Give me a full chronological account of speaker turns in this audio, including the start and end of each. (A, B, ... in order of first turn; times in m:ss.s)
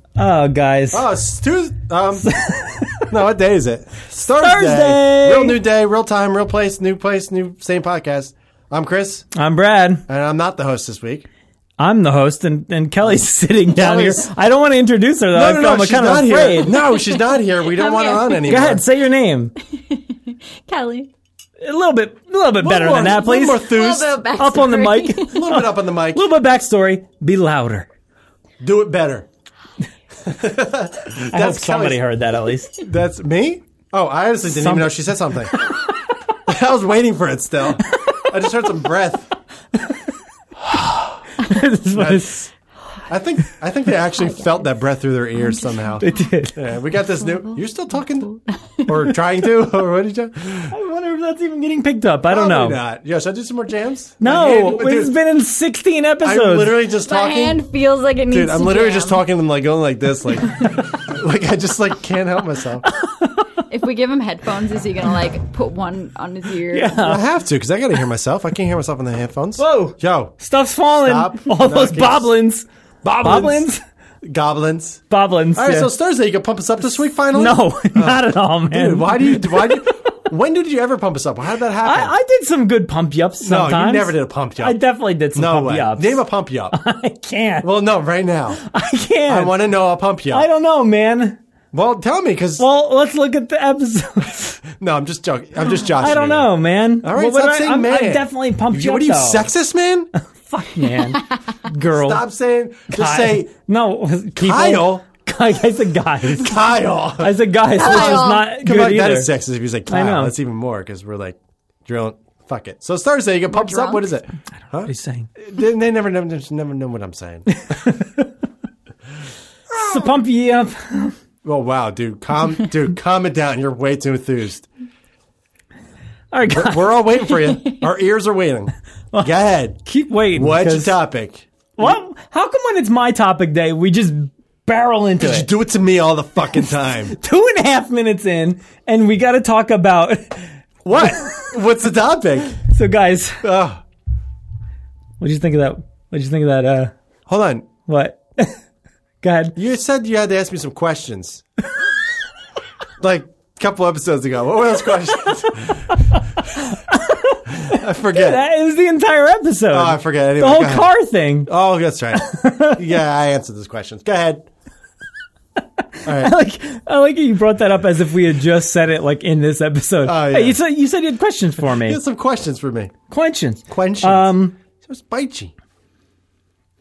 0:00.2-0:01.1 A
0:00.9-0:02.3 B
0:02.2-0:03.1 A
0:03.1-0:09.2 B
0:04.4-0:05.6 A
0:09.3-0:10.0 A
0:10.1-0:11.3 B
0:11.8-0:16.8 A
0:13.7-0:14.3 B
0:15.3-0:18.8 B
0:16.7-0:18.6 C
0:18.4-0:19.5 A
0:19.7-0:21.1 C
0:21.6-0:27.9 A
0:22.6-0:24.2 B
0:23.3-0:25.6 C
0:25.3-0:26.3 B
0:28.6-0:29.3 B
0:30.2-0:32.0 B
0:31.1-0:32.8 A
0:32.8-0:35.5 B
0:34.5-0:35.0 A
0:36.4-0:39.3 B
0:40.7-0:42.5 A
0:42.0-0:42.5 B
0:43.1-0:46.0 B
0:44.2-0:44.7 C
0:45.3-0:46.4 C
0:46.0-0:46.6 A
0:46.6-0:48.3 B
0:47.1-0:49.1 C
0:48.9-0:50.8 B
0:50.7-0:52.8 A
0:52.3-0:55.2 B
0:54.2-0:56.8 A
0:56.2-0:57.6 B
0:57.0-0:59.2 C
0:58.3-1:02.9 B
1:02.9-1:03.5 A
1:03.7-1:07.0 C
1:06.7-1:07.2 A
1:07.0-1:10.4 B
1:09.6-1:13.8 A
1:11.0-1:12.3 B
1:13.0-1:13.7 B
1:14.2-1:15.0 B
1:15.1-1:15.9 A
1:15.6-1:22.2 B
1:17.3-1:20.1 A
1:21.8-1:27.7 A
1:23.4-1:24.8 B
1:25.3-1:26.8 B
1:27.6-1:28.6 B
1:28.5-1:29.6 A
1:29.3-1:30.5 B
1:30.3-1:31.4 A
1:31.7-1:32.6 B
1:32.6-1:34.6 A
1:34.8-1:40.1 B
1:35.6-1:39.5 A
1:40.2-1:42.2 A
1:40.8-1:41.3 C
1:41.9-1:43.5 B
1:42.9-1:49.3 A
1:44.4-1:45.1 B
1:46.2-1:57.6 B
1:47.7-1:48.5 C
1:49.9-1:50.3 A
1:53.5-1:54.1 C
1:54.8-1:55.3 A
1:57.6-1:58.3 A
1:59.7-2:00.2 B
1:59.7-2:01.2 A
2:01.4-2:04.7 B
2:06.3-2:07.6 A
2:06.5-2:09.8 B
2:09.8-2:11.0 A
2:10.3-2:11.9 B
2:11.8-2:15.5 A
2:15.2-2:17.1 B
2:16.4-2:20.5 A
2:20.8-2:22.6 B
2:22.6-2:23.4 A
2:23.4-2:23.8 B
2:25.2-2:26.9 A
2:27.3-2:27.7 B
2:27.9-2:28.6 A
2:29.2-2:29.6 A
2:29.6-2:31.4 B
2:33.0-2:35.9 B
2:36.1-2:41.5 A
2:37.5-2:38.4 B
2:39.7-2:40.9 B
2:41.4-2:44.5 B
2:42.1-2:42.8 A
2:45.9-2:52.0 A
2:46.0-2:46.3 B
2:50.0-2:50.6 B
2:51.6-2:52.9 B
2:53.1-2:54.6 A
2:53.7-2:55.5 B